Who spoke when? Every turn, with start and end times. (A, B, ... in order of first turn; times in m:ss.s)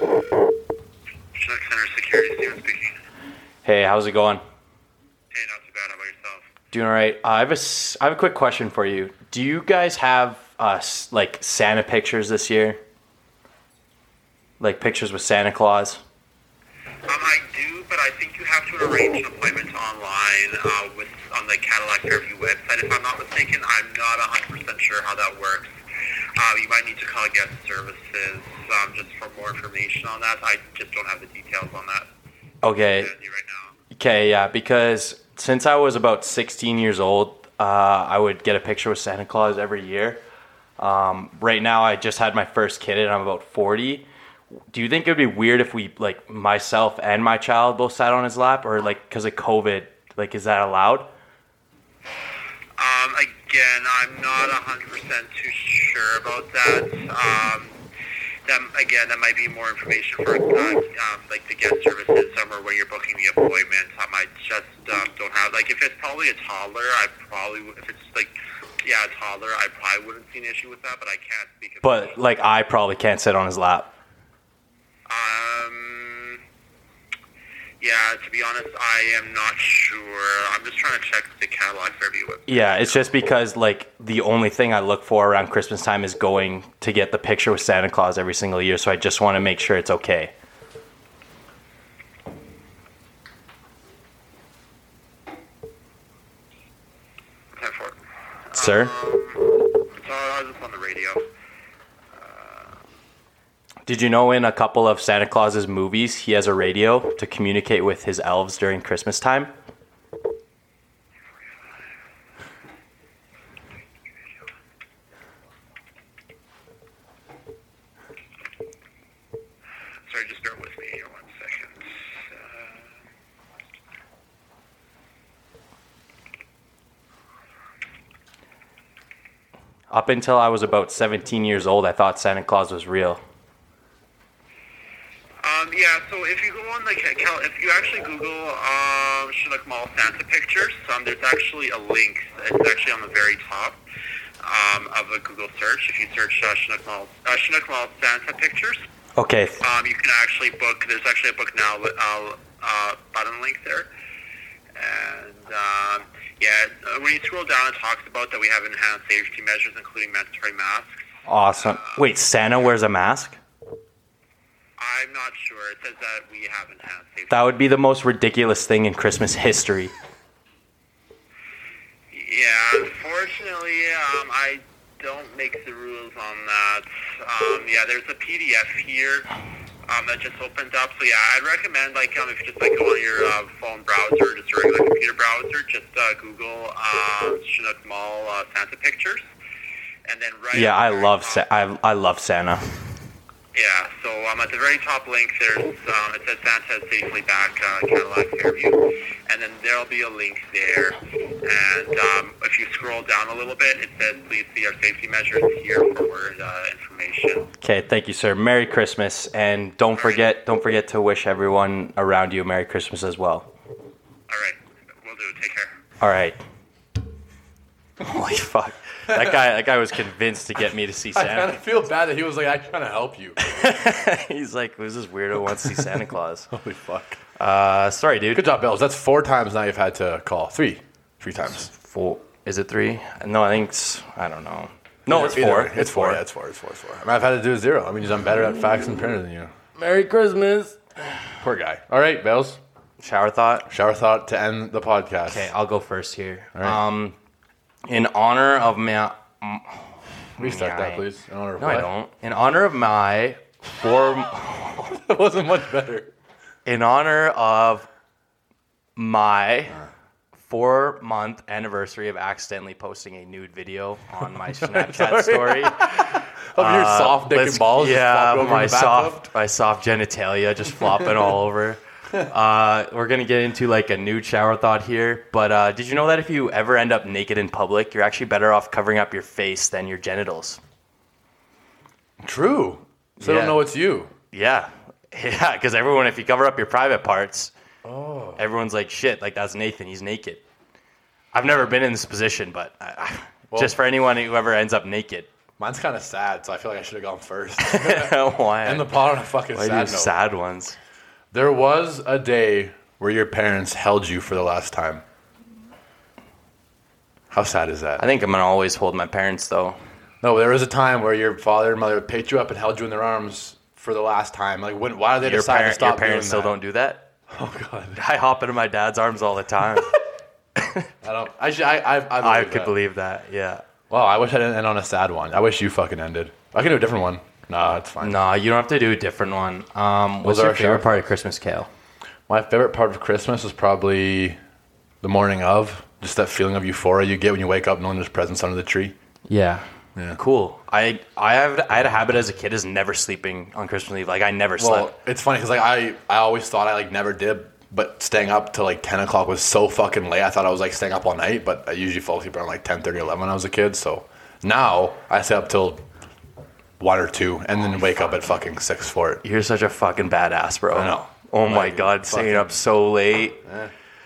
0:01.4-0:03.0 A
0:03.6-0:04.4 B
0:05.3-0:06.4 A
0:06.7-0:12.8 B
0:14.6-0:16.0 B
0:17.1-0:25.8 A
0:26.4-0:32.1 A
0:32.6-0:33.1 B
0:33.0-0:33.7 A
0:33.9-0:40.2 B
0:40.8-0:44.0 B
0:44.7-0:51.1 B
0:52.8-0:57.8 A
0:58.4-1:12.2 A
1:11.8-1:13.9 B
1:15.1-1:16.4 A
1:17.8-1:23.0 A
1:22.5-1:30.3 B
1:37.6-1:38.0 A
1:38.5-1:41.2 A
1:38.5-1:38.9 B
1:42.1-1:42.7 A
1:43.9-1:49.5 B
2:00.1-2:02.8 A
2:09.9-2:13.2 B
2:15.4-2:23.8 A
2:24.4-2:28.8 A
2:29.2-2:29.6 B
2:29.6-2:33.9 A
2:34.8-2:41.0 A
2:41.3-2:43.4 B
2:41.6-2:42.0 A
2:44.8-2:47.5 A
2:47.3-2:49.9 B
2:52.1-2:59.3 A
2:59.9-3:09.2 A
3:10.0-3:11.5 A
3:10.5-3:12.8 B
3:13.5-3:27.5 A
3:27.6-3:33.5 B
3:30.0-3:30.2 A
3:34.3-3:35.7 A
3:36.0-3:36.4 B
3:38.0-3:41.6 B
3:41.1-3:43.7 C
3:43.4-3:46.5 B
3:45.6-3:45.9 C
3:46.5-3:47.2 C
3:47.4-3:48.5 B
3:48.3-3:51.7 C
3:51.5-3:56.2 B
3:55.1-3:59.5 C
3:59.8-4:00.8 B
4:01.4-4:02.6 C
4:03.0-4:03.7 B
4:03.7-4:05.5 C
4:05.3-4:07.2 B
4:06.6-4:06.8 C
4:07.9-4:09.8 B
4:10.4-4:11.0 B
4:10.4-4:11.9 C
4:11.6-4:14.9 B
4:14.8-4:16.1 C
4:16.7-4:17.9 B
4:19.0-4:19.8 B
4:20.4-4:40.6 B
4:24.5-4:29.3 C
4:42.2-4:44.1 C
4:43.2-4:43.6 B
4:44.3-4:47.5 B
4:47.8-4:48.4 C
4:48.4-4:50.4 B
4:51.3-4:55.3 B
4:53.5-4:53.8 C
4:55.6-5:00.1 C
4:57.6-4:59.0 B
4:59.5-5:00.8 B
5:01.3-5:05.0 C
5:07.3-5:08.0 C
5:08.0-5:09.8 B
5:10.2-5:16.6 C
5:15.2-5:17.1 B
5:17.3-5:18.0 C
5:18.0-5:20.0 B
5:20.6-5:20.9 B
5:21.0-5:22.7 C
5:22.2-5:23.6 B
5:23.9-5:28.2 C
5:28.0-5:31.7 B
5:30.2-5:31.0 C
5:32.3-5:34.4 C
5:35.0-5:38.9 C
5:39.3-5:44.9 B
5:44.6-5:55.8 C
5:56.8-5:59.2 C
5:59.2-6:03.4 B
6:00.7-6:02.6 C
6:03.4-6:03.7 C